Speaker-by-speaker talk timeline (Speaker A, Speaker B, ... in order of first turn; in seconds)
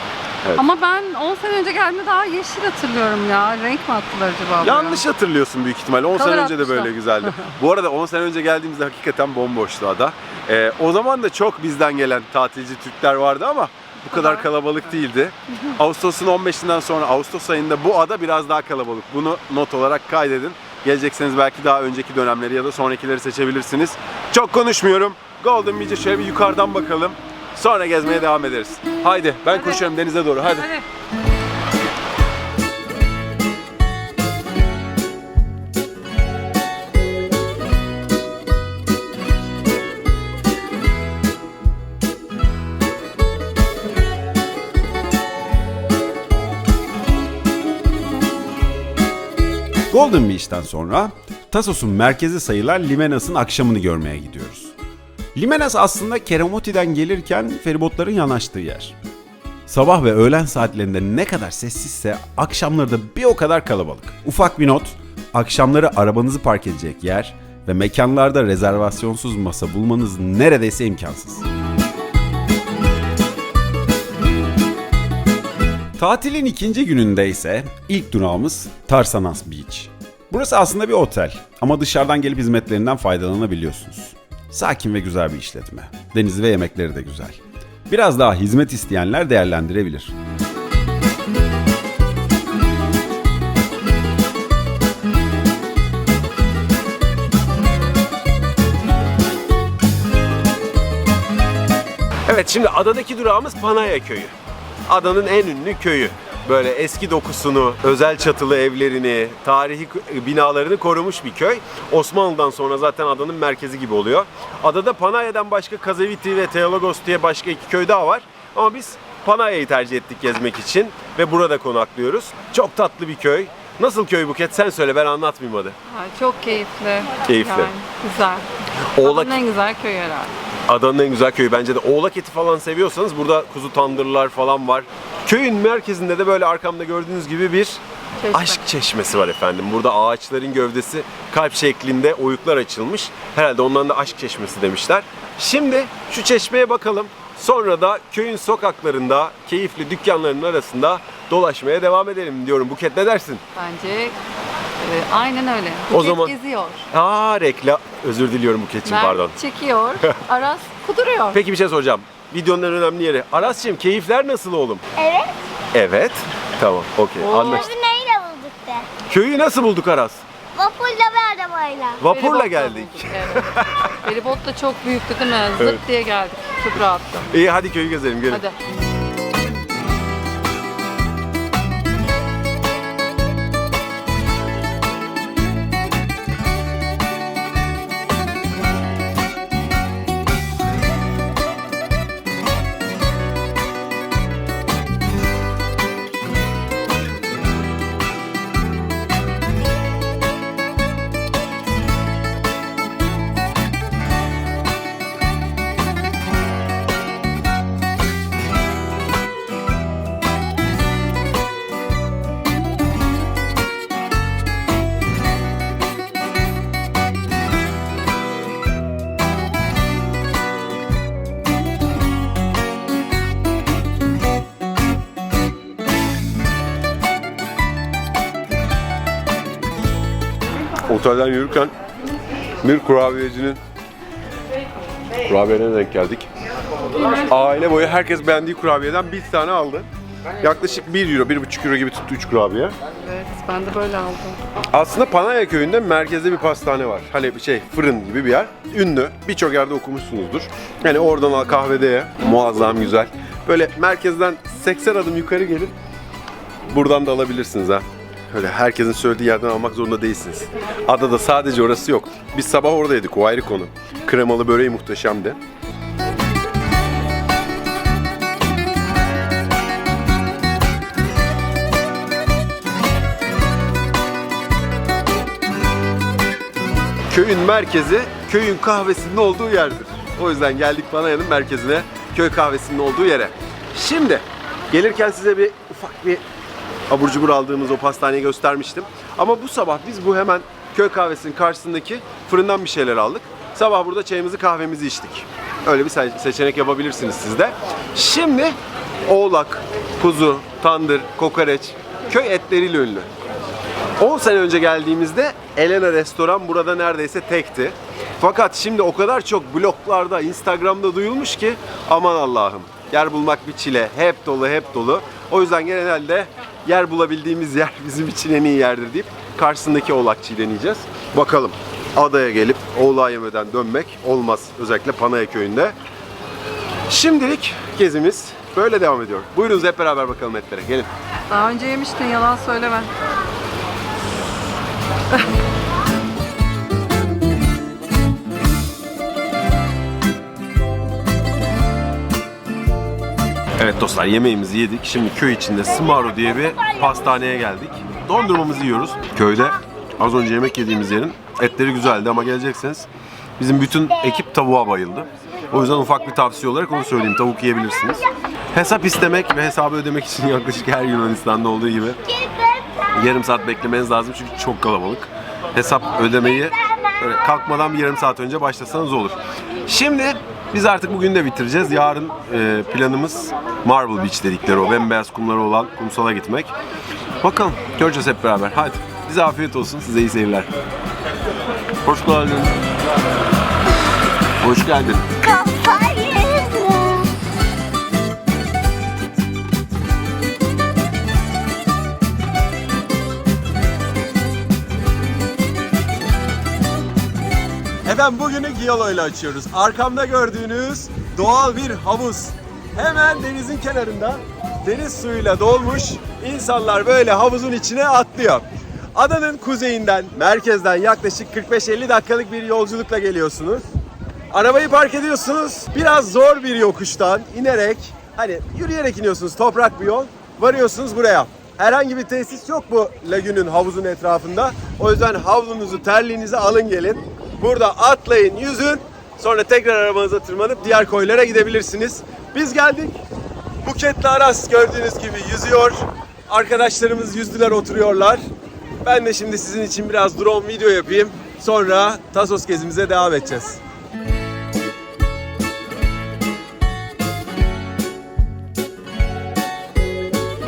Speaker A: 0.6-5.0, 6.1-6.9, 14.1-14.4, 29.5-29.9, 30.4-30.8, 125.9-128.4, 129.0-130.3, 138.2-138.6, 153.5-154.2, 154.8-156.8, 158.8-161.4, 167.2-167.7, 172.1-177.3, 178.3-178.5, 243.0-244.4, 331.3-332.9
Speaker B: 4.6-30.7, 49.9-50.4, 51.5-52.5, 53.4-53.8, 59.8-61.2, 62.8-63.8, 65.6-66.7, 67.6-69.3, 76.8-79.2, 80.5-82.8, 84.5-85.0, 86.0-87.0, 87.9-88.4, 89.0-89.8, 102.2-104.3, 104.9-125.7, 127.2-127.7, 128.9-129.3, 130.7-153.4, 155.9-156.4, 156.9-159.3, 161.3-164.8, 165.7-167.7, 168.9-170.2, 172.0-174.0, 177.3-178.4, 230.8-231.7, 232.6-233.6, 235.2-236.3, 237.2-239.9, 240.4-242.7, 244.7-255.7, 256.7-265.4, 277.1-286.2, 286.9-303.1, 304.0-325.7, 326.9-330.9, 343.6-376.5, 377.2-380.5, 381.8-382.5, 384.4-385.1, 397.8-413.6, 414.3-433.0, 433.6-438.2, 438.8-443.6
Speaker C: 49.9-51.1, 51.8-54.7, 55.4-58.9, 59.7-71.4, 76.0-87.4, 87.9-90.1
Speaker D: 165.0-165.4, 167.6-168.9, 170.6-172.1, 385.2-387.1